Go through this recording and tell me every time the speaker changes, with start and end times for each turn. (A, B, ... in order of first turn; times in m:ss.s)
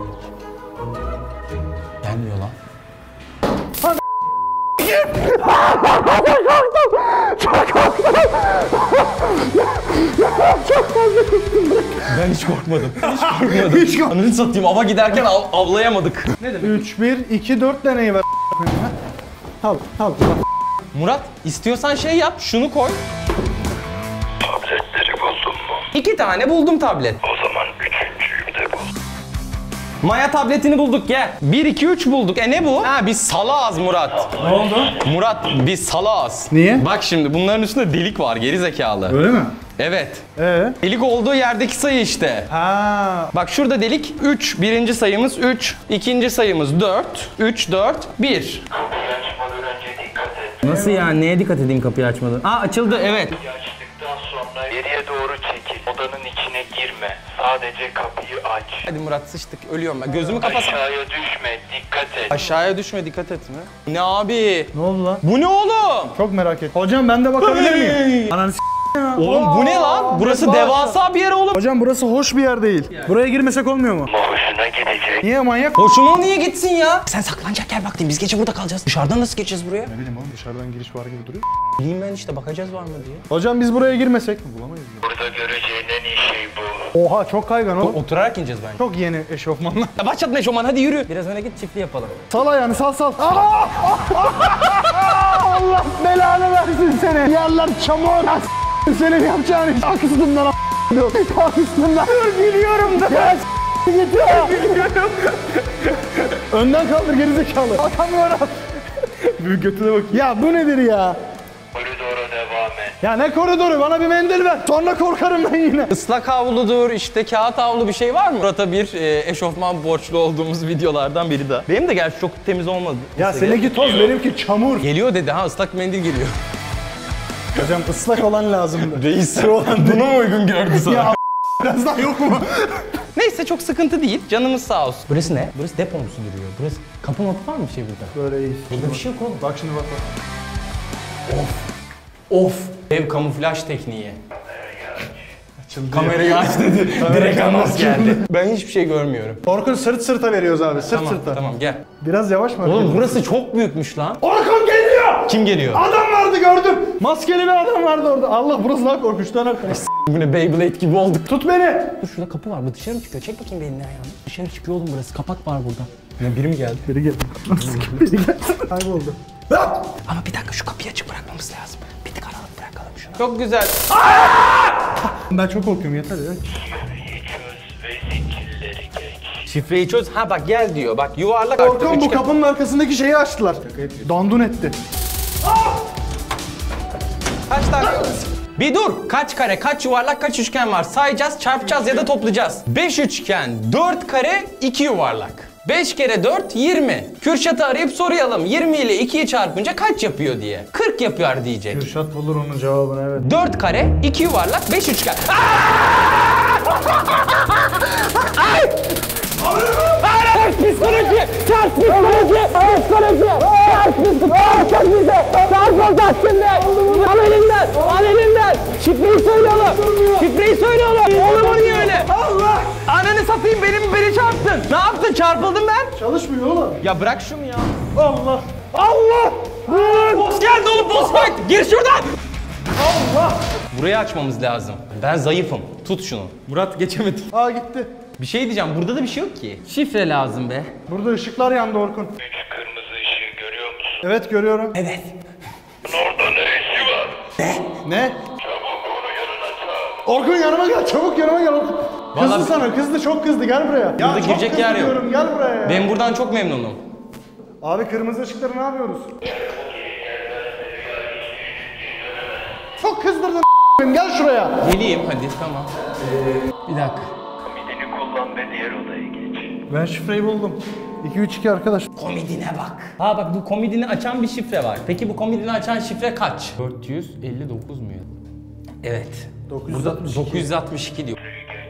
0:02.0-0:02.6 A
0:06.3-0:08.7 B
0:09.9-0:12.0 B
0:12.0-0:16.8 A
0:13.0-0:14.2 B
0:16.6-0:19.0 B
0:19.6-0:20.4 B
0:20.9-0:23.0 A
0:24.4-0:25.8 C
0:25.9-0:27.3 A
0:27.3-0:28.9 C
0:30.0-0:39.2 A
0:34.4-0:35.0 B
0:36.5-0:36.9 B
0:39.1-0:39.6 B
0:39.8-0:40.2 A
0:40.4-0:40.8 B
0:40.8-0:42.5 A
0:42.5-0:43.3 B
0:43.3-0:48.8 A
0:48.8-0:50.6 C
0:50.6-0:53.4 A
0:50.6-0:51.1 B
0:53.4-0:58.8 C
0:58.8-1:00.9 A
1:00.5-1:02.3 C
1:02.3-1:06.2 A
1:04.7-1:05.2 B
1:06.2-1:11.0 B
1:07.4-1:08.3 A
1:09.2-1:11.6 A
1:11.5-1:14.2 B
1:14.2-1:15.2 C
1:15.2-1:15.8 B
1:15.8-1:19.9 A
1:19.9-1:21.4 B
1:21.8-1:23.2 A
1:23.3-1:25.1 B
1:25.1-1:26.9 C
1:26.9-1:28.0 B
1:27.8-1:28.8 A
1:28.8-1:29.9 B
1:30.0-1:32.2 A
1:32.3-1:42.3 B
1:42.0-1:46.2 A
1:43.0-1:44.6 B
1:46.3-1:48.5 B
1:48.0-1:48.5 A
1:49.1-1:50.2 A
1:50.1-1:51.2 B
1:51.7-1:53.0 C
1:53.0-1:55.9 B
1:55.9-2:04.1 A
2:03.2-2:04.9 B
2:04.8-2:06.3 A
2:07.5-2:10.1 B
2:08.9-2:11.2 A
2:10.7-2:13.0 B
2:13.1-2:18.2 A
2:18.1-2:20.0 B
2:18.7-2:19.5 A
2:21.3-2:21.7 A
2:22.3-2:24.2 A
2:25.6-2:28.2 B
2:25.9-2:29.4 A
2:29.4-2:31.4 B
2:30.8-2:31.8 A
2:32.0-2:33.2 B
2:32.6-2:34.2 A
2:34.2-2:39.9 B
2:35.2-2:35.8 A
2:39.8-2:41.4 A
2:41.3-2:42.0 B
2:41.9-2:46.9 A
2:46.8-2:49.2 B
2:47.6-2:48.1 A
2:49.5-2:54.0 A
2:53.9-2:56.4 B
2:56.8-2:59.3 C
2:59.4-3:02.2 A
3:01.6-3:04.8 B
3:03.8-3:04.0 A
3:07.5-3:21.8 A
3:21.7-3:23.3 B
3:23.2-3:29.0 A
3:29.7-3:42.1 A
3:36.6-3:37.0 B
3:39.5-3:40.3 B
3:41.1-3:42.8 B
3:42.8-3:46.0 A
3:46.0-3:46.8 B
3:46.8-3:47.8 A
3:48.0-3:51.4 B
3:48.8-3:52.2 A
3:52.8-3:53.5 B
3:53.7-3:57.3 A
3:57.3-3:57.9 B
3:58.2-4:00.7 A
4:00.9-4:02.2 B
4:02.2-4:04.0 C
4:04.0-4:04.8 B
4:04.8-4:05.2 A
4:05.8-4:07.3 C
4:07.4-4:07.8 A
4:07.8-4:08.2 B
4:08.4-4:10.0 C
4:10.0-4:15.9 B
4:12.1-4:12.6 A
4:14.0-4:15.0 A
4:15.6-4:16.8 A
4:17.6-4:19.3 B
4:19.4-4:22.4 C
4:22.8-4:24.6 B
4:24.6-4:27.1 A
4:27.4-4:29.6 C
4:29.7-4:31.9 B
4:32.0-4:38.1 A
4:38.8-4:41.4 A
4:39.5-4:40.5 B